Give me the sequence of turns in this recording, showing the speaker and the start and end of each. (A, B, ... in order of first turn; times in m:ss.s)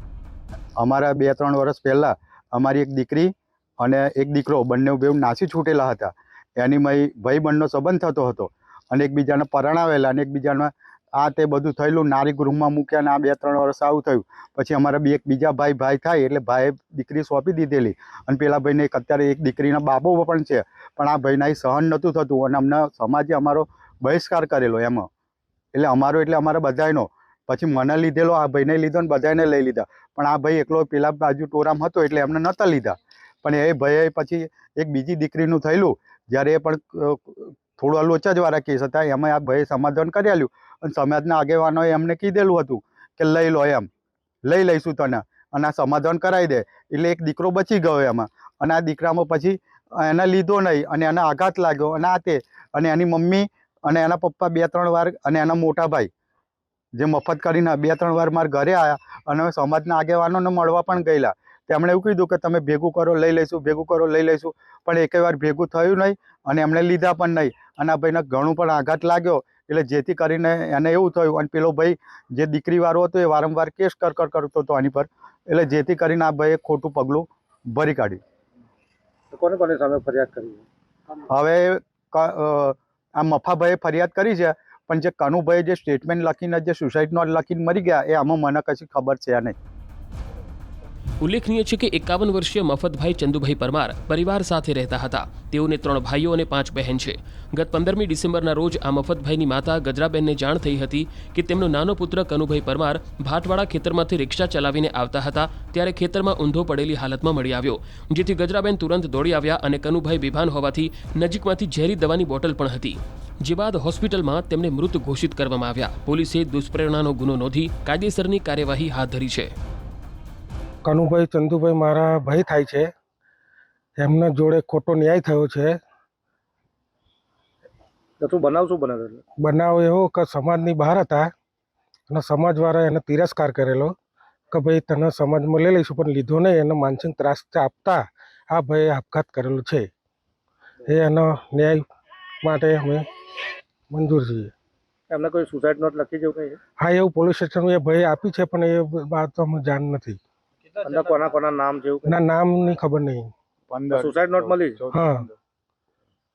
0:00.8-0:25.1 A
0:25.7-0:43.9 A
0:44.4-0:56.1 A
0:57.0-1:18.2 A
1:19.3-1:20.6 B
1:21.3-1:29.5 A
1:31.2-1:59.5 C
2:00.8-2:02.9 D
2:04.0-2:05.8 D
2:08.2-2:09.2 B
2:09.4-2:11.3 D
2:12.1-2:13.9 D
2:14.5-2:19.9 D
2:20.9-2:21.8 D
2:22.4-2:23.1 D
2:23.9-2:24.5 D
2:25.1-2:26.6 B
2:26.8-2:30.2 D
2:30.8-2:32.2 B
2:32.1-2:33.3 D
2:33.7-2:35.3 A
2:33.9-2:34.8 B
2:34.9-2:35.2 D